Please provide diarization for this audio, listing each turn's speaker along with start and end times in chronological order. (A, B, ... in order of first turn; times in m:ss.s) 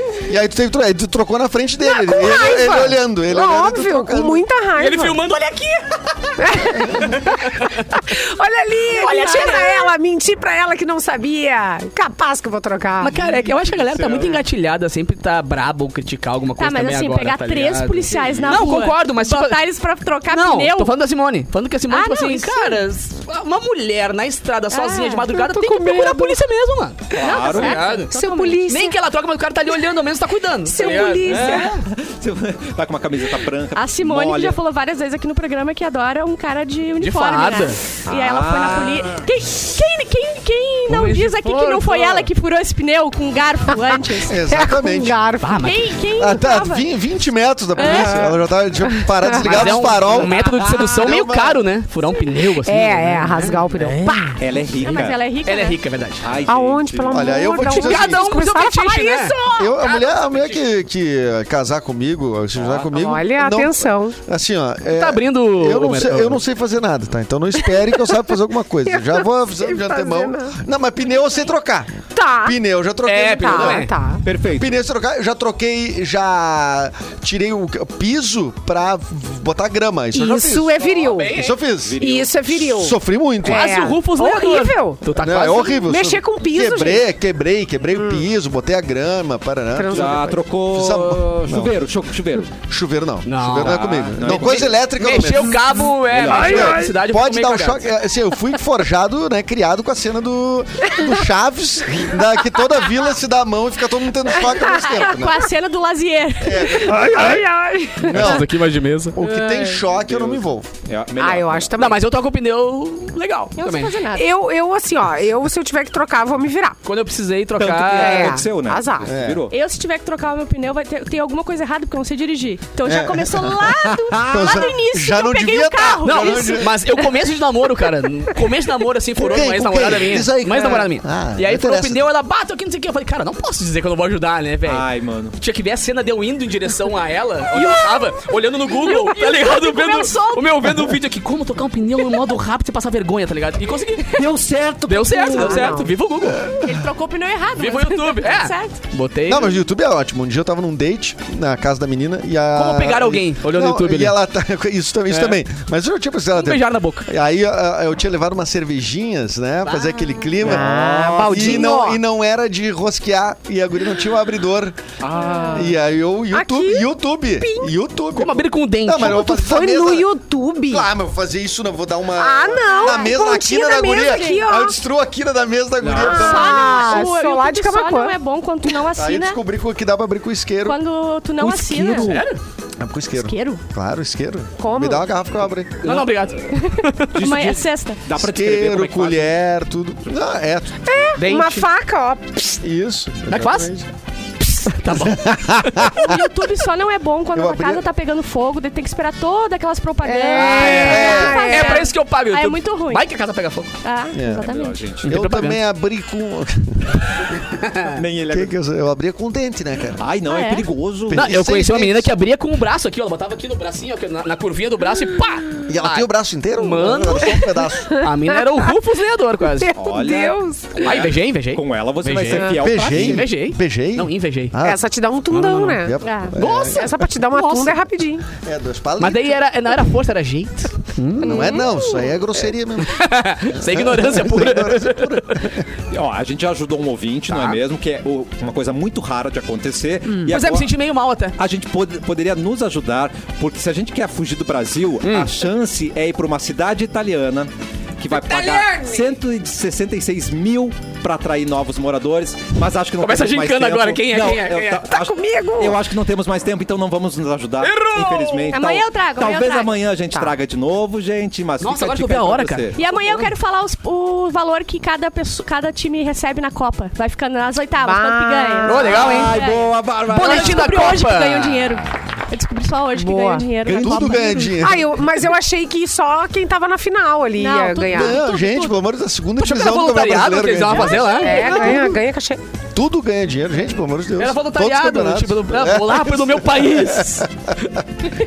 0:00.3-0:04.5 A
0:01.8-0:05.2 B
0:04.8-0:07.8 C
0:06.4-0:13.2 B
0:08.9-0:09.9 D
0:13.0-0:19.6 C
0:13.1-0:14.4 E
0:16.6-0:20.9 D
0:20.3-0:31.8 C
0:21.9-0:22.8 D
0:24.7-0:25.4 D
0:25.3-0:26.4 B
0:27.1-0:27.9 E
0:27.2-0:29.0 B
0:27.2-0:28.6 D
0:30.7-0:31.8 B
0:30.8-0:31.5 D
0:31.4-0:34.6 E
0:33.7-0:44.4 D
0:37.0-0:37.8 C
0:38.1-0:39.2 E
0:40.9-0:42.3 C
0:44.3-0:45.2 A
0:44.3-0:45.7 B
0:45.4-0:46.0 C
0:45.6-0:46.9 D
0:46.2-0:51.7 A
0:47.8-0:48.3 D
0:47.9-0:48.3 E
0:48.9-0:50.0 B
0:49.4-0:54.3 C
0:52.5-0:54.4 B
0:54.4-0:55.2 E
0:54.8-0:55.8 D
0:55.4-0:56.3 C
0:56.2-0:57.4 E
0:56.5-0:59.8 B
0:57.1-0:58.4 A
0:57.6-1:00.6 C
0:59.5-1:13.9 A
1:02.6-1:03.0 E
1:02.9-1:04.2 B
1:04.9-1:06.4 C
1:08.9-1:10.5 B
1:12.1-1:12.6 B
1:13.0-1:13.9 C
1:13.4-1:14.2 B
1:14.2-1:14.8 E
1:14.6-1:22.0 A
1:20.1-1:27.1 B
1:20.8-1:21.6 C
1:21.8-1:22.7 E
1:22.6-1:23.7 A
1:23.4-1:25.8 C
1:25.2-1:31.7 A
1:27.9-1:28.3 B
1:29.7-1:30.4 B
1:29.9-1:32.5 E
1:32.6-1:45.5 A
1:33.3-1:34.0 C
1:33.6-1:34.8 E
1:35.0-1:37.9 C
1:36.1-1:36.8 E
1:44.9-1:47.1 D
1:46.4-1:48.5 A
1:46.9-1:48.4 B
1:48.1-1:49.2 C
1:49.1-1:50.7 A
1:49.2-1:49.8 B
1:49.9-1:51.9 E
1:51.2-1:52.0 B
1:51.8-1:54.0 C
1:53.6-1:54.3 D
1:54.1-1:56.8 B
1:56.8-1:58.4 C
1:57.6-1:59.5 E
1:58.0-1:59.1 B
1:59.0-1:59.4 A
1:59.5-2:06.7 D
2:02.9-2:03.6 A
2:03.8-2:04.7 E
2:04.2-2:06.7 A
2:06.0-2:14.8 C
2:09.2-2:12.0 A
2:10.5-2:10.8 B
2:14.7-2:15.4 E
2:15.4-2:24.2 C
2:17.5-2:20.8 D
2:24.2-2:25.8 E
2:24.9-2:26.5 C
2:25.3-2:25.9 B
2:26.6-2:28.8 D
2:27.6-2:29.6 C
2:29.3-2:44.9 A
2:32.6-2:34.2 C
2:35.1-2:35.4 C
2:36.3-2:37.1 C
2:39.6-2:40.1 C
2:40.4-2:42.0 B
2:40.4-2:41.6 E
2:45.0-2:45.8 E
2:45.2-2:45.7 B
2:45.5-2:50.1 A
2:46.3-2:46.9 B
2:47.4-2:47.7 B
2:48.1-2:49.3 C
2:49.0-2:50.9 B
2:50.7-2:56.8 A
2:52.2-2:54.8 B
2:53.9-2:54.4 D
2:55.8-2:56.2 E
2:55.9-2:58.2 B
2:56.1-2:59.4 D
2:58.9-3:00.8 A
3:00.6-3:02.2 D
3:01.4-3:02.2 E
3:01.8-3:02.4 C
3:02.8-3:05.8 A
3:03.2-3:03.6 D
3:04.6-3:05.1 B
3:05.8-3:06.2 E
3:05.8-3:07.2 C
3:06.6-3:08.0 D
3:07.1-3:09.3 E
3:08.2-3:10.8 A
3:10.9-3:12.6 B
3:11.2-3:11.7 C
3:12.6-3:13.9 A
3:13.3-3:13.7 C
3:14.5-3:16.0 C
3:14.9-3:16.2 A
3:15.8-3:23.0 D
3:17.3-3:17.8 A
3:20.0-3:21.8 B
3:20.3-3:23.7 C
3:20.8-3:21.4 A
3:23.8-3:24.8 D
3:24.1-3:27.4 A
3:24.5-3:25.1 E
3:25.0-3:25.6 C
3:27.6-3:28.0 C
3:27.9-3:28.6 E
3:28.3-3:30.1 A
3:30.0-3:31.3 E
3:30.3-3:30.6 D
3:31.1-3:32.1 A
3:31.1-3:37.4 C
3:35.7-3:38.1 A
3:38.0-3:39.7 C
3:39.6-3:41.0 B
3:39.8-3:43.3 E
3:40.8-3:44.6 C
3:42.6-3:44.8 A
3:44.6-3:48.3 B
3:45.3-3:45.8 C
3:45.7-3:47.0 A
3:46.0-3:46.4 D
3:46.4-3:47.8 C
3:48.4-3:49.4 A
3:49.0-3:51.6 C
3:51.2-3:55.6 A
3:51.2-3:51.6 B
3:51.3-3:52.1 D
3:52.8-3:55.5 C
3:55.9-4:00.7 E
3:57.3-3:57.6 C
4:00.2-4:01.4 C
4:01.4-4:22.8 E
4:05.0-4:05.3 C
4:08.3-4:09.0 C
4:13.0-4:14.9 C
4:14.9-4:15.8 B
4:17.6-4:18.6 C
4:18.5-4:19.7 D
4:21.6-4:23.3 C
4:22.8-4:34.5 D
4:27.8-4:29.2 B
4:28.7-4:29.3 C
4:28.9-4:31.0 E
4:30.1-4:32.1 C
4:32.9-4:33.5 B
4:33.6-4:34.5 E
4:33.7-4:34.9 A
4:34.6-4:38.2 B
4:37.4-4:38.8 D
4:37.9-4:42.0 A
4:39.4-4:41.9 C
4:40.8-4:41.8 D
4:41.2-4:42.4 B
4:42.8-4:48.1 A
4:44.2-4:47.3 C